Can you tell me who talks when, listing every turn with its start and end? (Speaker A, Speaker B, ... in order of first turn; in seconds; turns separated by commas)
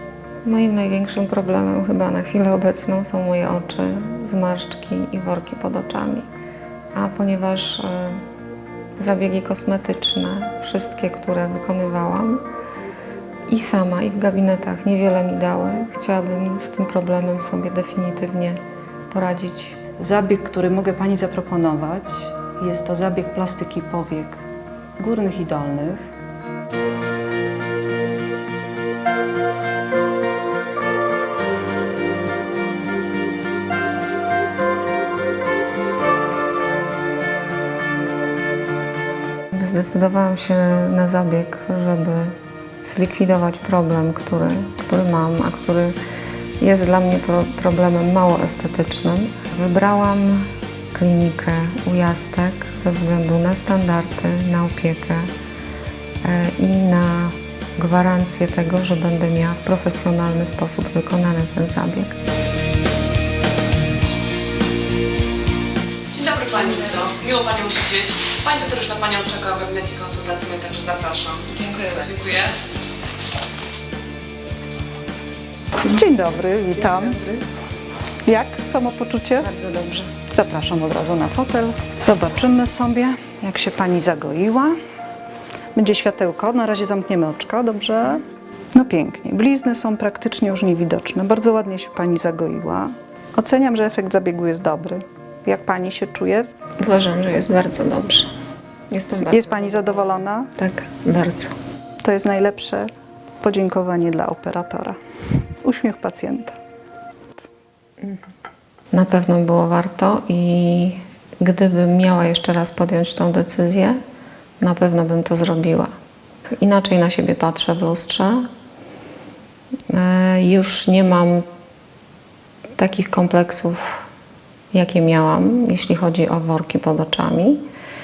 Speaker A: 0.4-6.3, Speaker A: 6.9-8.2, Speaker A: 9.0-12.4, Speaker A: 13.5-18.6, Speaker A: 19.1-19.8, Speaker B: 20.0-24.4, Speaker B: 25.0-26.0, Speaker A: 39.5-46.0, Speaker A: 46.6-55.3, Speaker A: 56.2-62.1, Speaker C: 66.1-72.5, Speaker A: 71.5-72.5, Speaker B: 75.8-77.2, Speaker A: 76.8-77.4, Speaker B: 78.2-79.5, Speaker A: 79.4-80.1, Speaker B: 80.3-84.8, Speaker B: 85.7-88.2, Speaker B: 88.7-96.5, Speaker A: 96.8-98.3, Speaker A: 98.9-101.5, Speaker B: 99.1-100.5, Speaker B: 102.0-102.9, Speaker B: 103.4-105.0, Speaker B: 105.5-106.6, Speaker A: 108.9-114.0, Speaker A: 114.6-115.9, Speaker A: 116.6-118.5, Speaker A: 119.9-121.5, Speaker A: 122.8-124.0, Speaker A: 124.7-127.6